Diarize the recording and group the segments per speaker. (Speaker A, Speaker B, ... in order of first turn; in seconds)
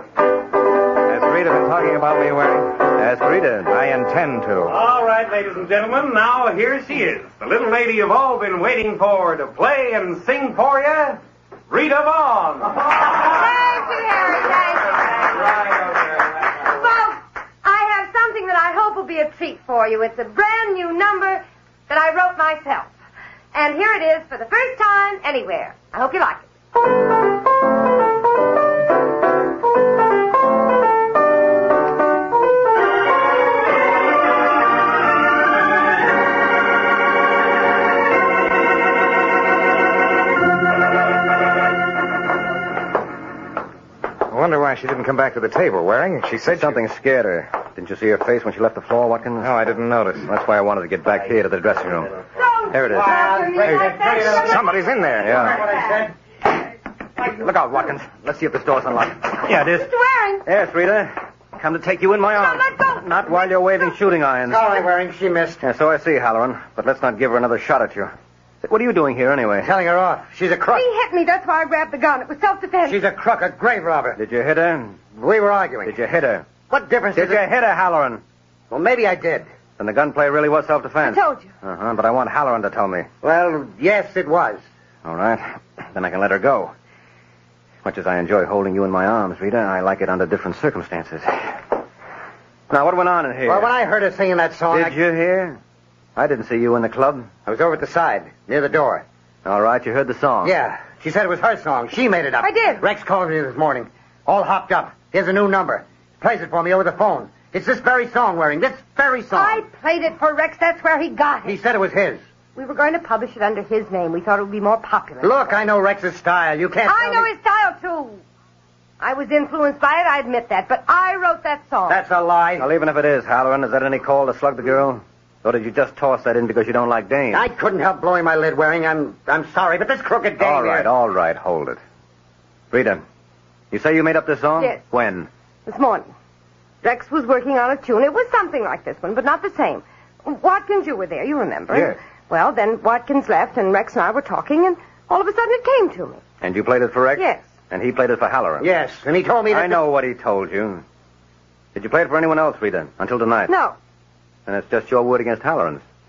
Speaker A: 1.1-2.8, 3.7-4.7, 44.3-46.8, 49.4-50.3, 54.3-55.4
Speaker B: 3.0-3.7, 46.5-49.5, 50.2-52.1, 52.7-53.8, 55.2-55.6, 57.2-59.8, 60.5-64.8, 65.6-69.7, 74.2-75.0, 75.8-76.5, 77.1-78.2, 79.8-83.1, 85.0-86.7, 87.8-91.6, 92.7-93.7, 94.7-95.6, 96.2-97.3, 99.4-100.5, 122.6-127.5, 130.4-131.8, 132.7-133.0, 133.7-135.3, 146.4-148.7, 149.5-150.8, 151.7-153.5, 154.4-155.8
Speaker C: 4.7-12.9
Speaker D: 13.1-15.2, 16.5-22.9, 23.5-26.5, 52.3-56.0, 59.5-60.4, 62.3-63.0, 70.7-73.0, 81.0-81.5, 102.4-102.8, 109.3-111.6, 112.5-115.3, 116.9-118.2, 119.0-122.0, 135.7-136.1, 136.8-146.2, 147.2-147.4, 153.5-153.8
Speaker E: 52.7-54.6, 55.3-56.1, 64.5-65.6, 69.6-70.8, 72.8-74.2, 75.1-75.9, 76.7-77.4, 78.7-79.5, 83.2-84.6, 93.5-94.9, 97.5-99.0, 100.4-109.6, 111.5-112.2, 115.2-117.3, 121.9-122.7, 127.3-130.9, 148.6-149.8